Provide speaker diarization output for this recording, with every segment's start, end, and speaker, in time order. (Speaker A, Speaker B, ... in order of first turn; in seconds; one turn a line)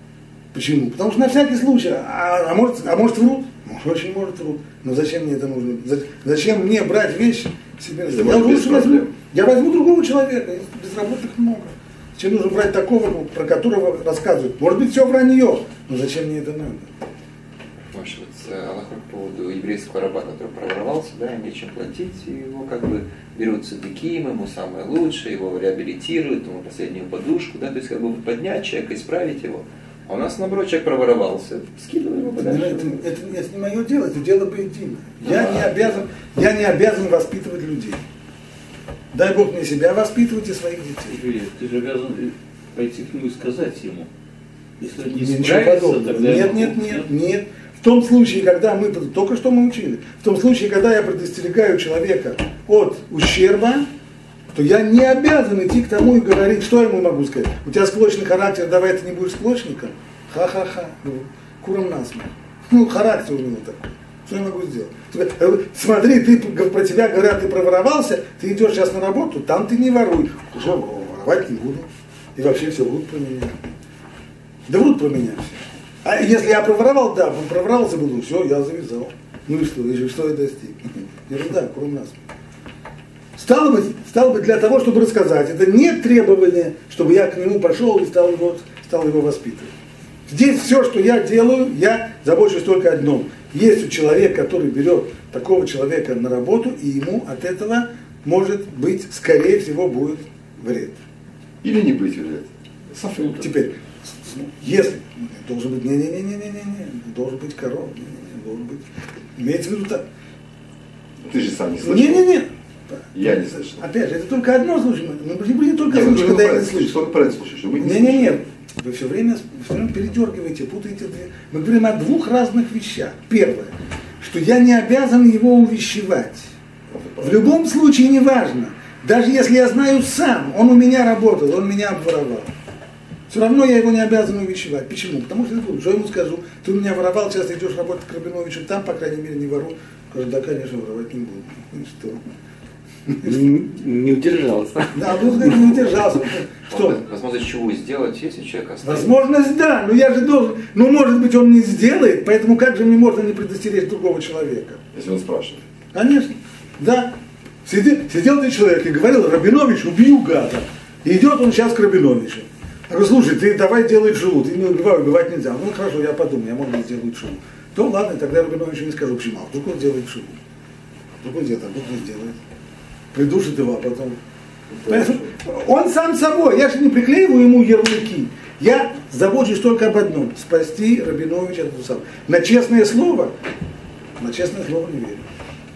Speaker A: 0.5-16.9
Speaker B: 8.1-9.1
Speaker C: 17.9-33.1
Speaker A: 32.4-38.0
Speaker C: 35.2-35.8
Speaker A: 39.1-41.2
Speaker D: 41.1-44.1
Speaker D: 44.8-47.1
Speaker A: 45.0-53.9
Speaker A: 54.5-73.7
Speaker A: 74.7-82.2
Speaker A: 83.3-89.7
Speaker A: 90.3-101.0
Speaker B: 101.6-103.4
Speaker A: 103.1-108.8
Speaker A: 109.3-110.0
Speaker B: 111.2-112.3
Speaker A: 111.8-117.0
Speaker B: 113.1-113.8
Speaker B: 115.8-118.4
Speaker A: 117.8-126.5
Speaker B: 126.9-127.5
Speaker A: 127.2-132.5
Speaker A: 133.3-142.2
Speaker A: 143.1-143.4
Speaker E: 143.2-145.5
Speaker A: 144.9-147.0
Speaker C: 146.7-149.1
Speaker A: 148.8-154.8
Speaker B: 154.9-155.6
Speaker A: 155.9-170.4
Speaker A: 171.2-172.4
Speaker A: 173.1-174.2
Speaker B: 174.7-175.2
Speaker A: 174.8-183.3
Speaker A: 184.2-185.2